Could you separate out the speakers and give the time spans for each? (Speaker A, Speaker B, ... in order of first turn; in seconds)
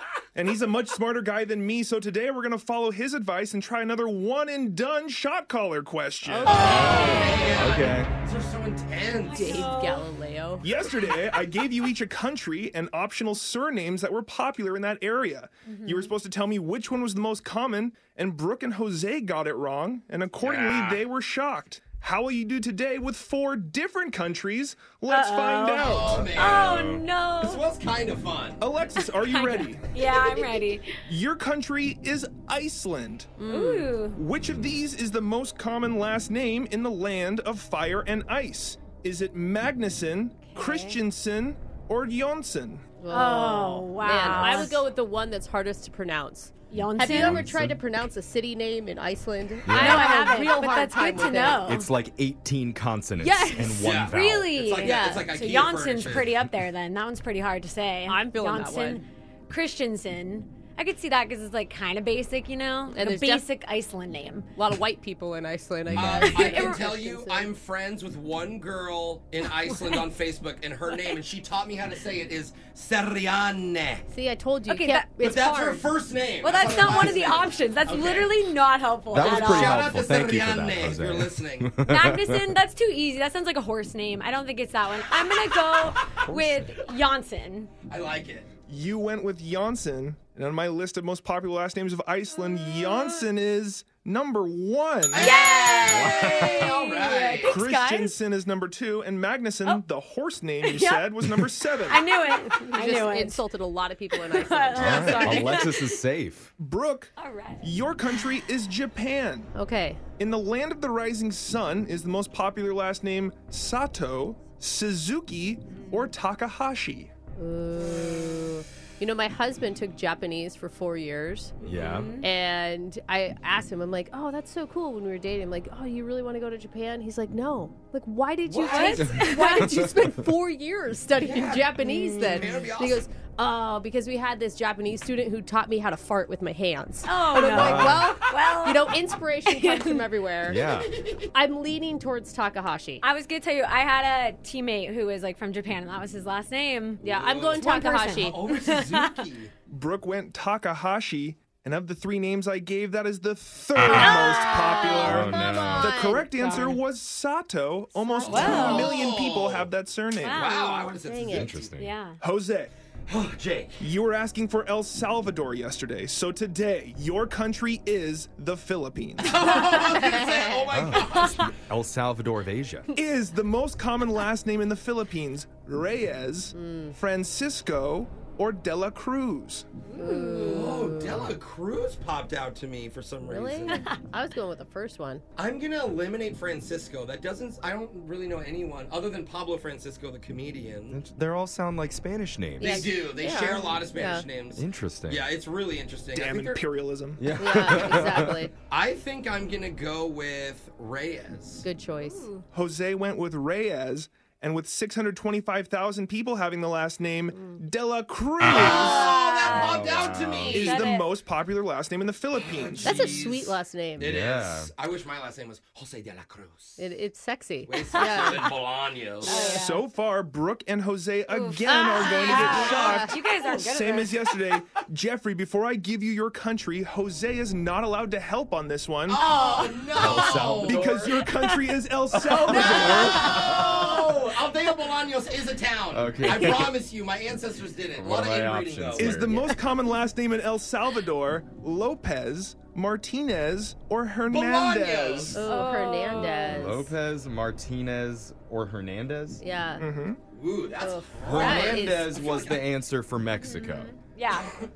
Speaker A: 0.3-6.6, 10.6-26.5, 28.6-29.9, 31.1-33.4, 34.1-42.9, 88.7-95.4, 97.4-102.0, 106.6-109.5, 110.2-117.1, 149.7-160.5, 162.2-162.7, 163.8-169.3, 172.9-179.7, 196.1-197.3, 202.5-209.2, 210.5-213.2, 219.3-229.2, 230.2-233.4, 238.9-245.4, 249.8-250.2
Speaker B: 6.2-7.6, 9.3-10.7, 33.4-33.9, 43.0-51.7, 53.2-53.6, 54.8-55.3, 58.1-59.0, 62.9-63.4, 64.5-67.5, 74.1-75.9, 102.6-105.5, 109.5-110.0, 117.4-121.5, 122.2-140.6, 141.3-143.0, 147.0-148.4, 154.2-156.8, 157.9-158.7, 161.0-161.5, 169.8-170.6, 176.5-176.9, 179.9-181.2, 183.2-185.2, 192.6-194.2, 197.4-198.5, 201.6-202.3, 207.3-207.6, 212.8-214.1, 216.8-218.6, 219.2-219.6, 221.6-223.1, 245.3-246.9, 249.4-249.9, 250.8-252.3
Speaker C: 6.5-9.7, 20.4-21.0, 25.8-28.6, 53.7-56.3, 65.9-74.0, 75.2-78.3, 79.1-81.8, 87.9-88.5, 95.1-97.6, 121.6-121.9, 128.5-129.1, 131.2-133.1, 147.0-149.5, 158.2-159.7, 160.3-161.7, 163.1-163.8, 169.2-171.5, 180.3-183.9, 185.4-191.0, 192.6-196.7, 198.7-201.6, 208.4-210.9, 212.3-216.8, 217.7-219.5, 222.4-222.7, 229.1-231.2, 232.4-239.5, 244.3-245.4, 250.3-252.6
Speaker D: 6.5-8.1, 44.1-44.7, 46.7-47.8, 49.6-50.1, 51.6-54.5, 65.9-66.2, 79.1-82.5, 86.2-86.7, 95.8-96.8, 104.7-106.5, 121.6-122.1, 129.0-130.1, 137.5-138.2, 140.4-140.9, 155.0-156.0, 161.2-161.9, 170.7-172.9, 190.9-193.0, 194.5-195.3, 197.2-198.4, 209.5-210.8, 214.0-214.7, 229.9-231.0, 232.2-234.0, 235.9-236.8, 238.0-239.5, 246.3-249.4, 251.2-253.9
Speaker E: 9.3-10.1, 15.7-16.1, 25.1-27.6, 29.0-30.9, 33.5-34.2, 40.5-41.0, 43.1-44.8, 46.7-47.5, 49.7-51.9, 54.1-64.5, 66.0-66.8, 74.7-75.1, 76.4-80.0, 81.8-87.7, 92.7-93.2, 95.1-98.2, 100.6-101.1, 101.8-103.5, 104.1-105.9, 107.2-107.6, 121.7-122.3, 128.6-129.7, 131.8-132.6, 137.1-138.9, 139.4-140.1, 143.0-147.0, 147.6-149.2, 153.9-155.0, 156.4-156.8, 158.3-159.0, 160.2-160.9, 161.8-162.2, 179.8-180.8, 202.0-202.4, 208.6-211.1, 217.9-218.5, 219.2-219.8, 221.3-224.3, 229.1-230.2, 231.2-231.6, 232.6-233.6, 245.4-246.7, 253.4-254.7